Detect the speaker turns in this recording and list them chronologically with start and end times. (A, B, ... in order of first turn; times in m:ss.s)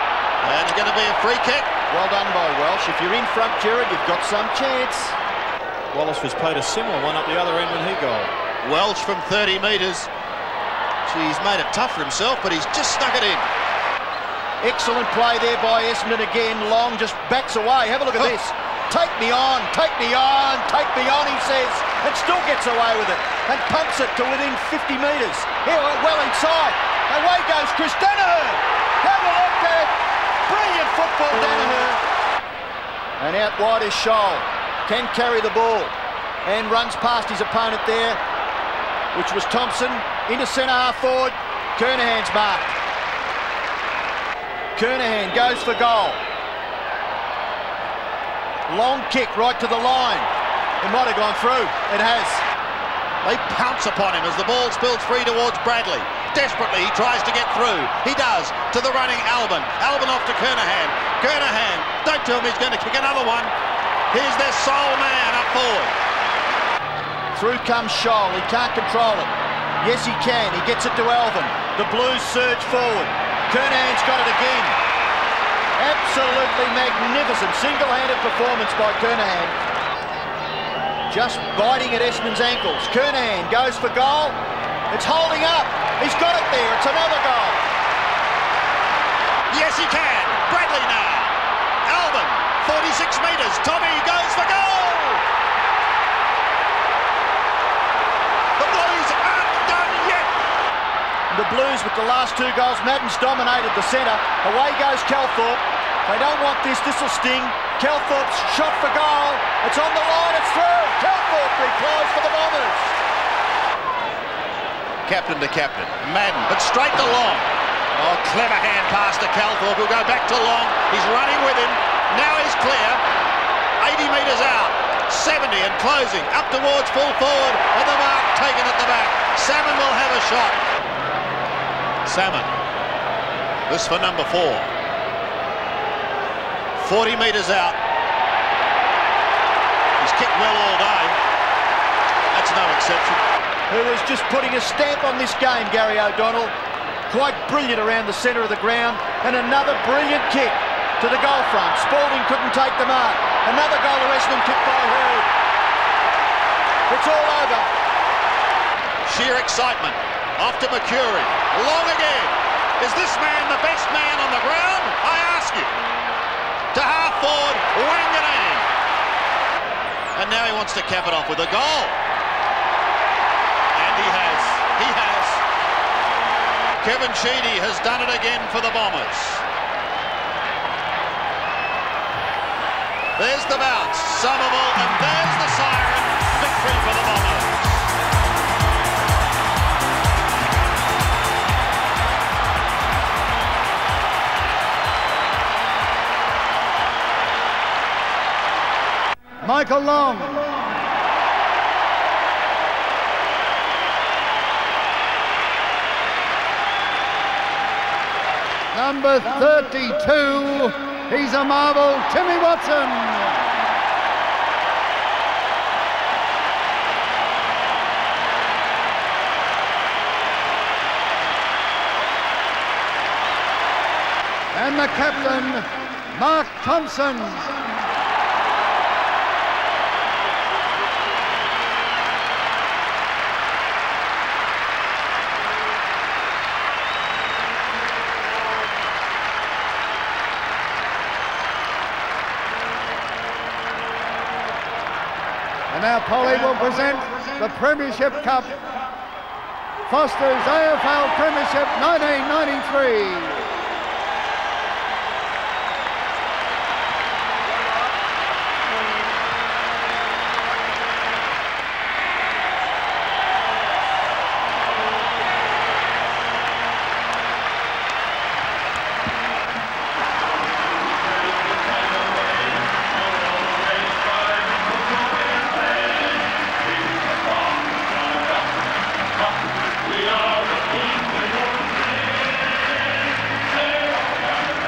0:00.4-0:01.7 A
0:01.9-0:05.2 B
0:05.9-0:08.3 C
0:08.6-0:10.1 A
0:11.1-0:13.4 A
0:14.6-0:29.9 B
0:30.5-0:32.0 B
0:33.2-0:35.9 B
0:36.4-0:38.2 B
0:39.1-0:42.8 B
0:44.8-0:46.2 B
0:48.7-0:50.3 B
0:50.8-0:52.4 B
0:53.2-1:03.5 A
1:04.1-1:05.9 A
1:07.3-1:14.8 B
1:15.8-1:19.6 B
1:21.1-1:24.4 B
1:24.9-1:27.6 B
1:29.5-1:35.2 A
1:38.6-1:40.3 A
1:41.3-1:52.9 B
1:55.1-2:03.0 A
2:03.8-2:10.6 A
2:12.0-2:12.5 A
2:13.7-2:14.7 A
2:16.8-2:17.8 A
2:20.0-2:21.2 A
2:22.3-2:23.2 A
2:23.7-2:26.5 B
2:27.1-2:35.3 B
2:36.9-2:37.7 B
2:39.1-2:45.7 A
2:46.7-2:48.6 A
2:50.2-2:51.9 A
2:53.8-2:55.4 A
2:56.8-2:59.4 A
3:03.2-3:07.8 A
3:19.4-3:20.5 D
3:28.7-3:33.3 D
3:44.5-3:47.5 D
4:05.7-4:08.6 D
4:09.9-4:13.4 D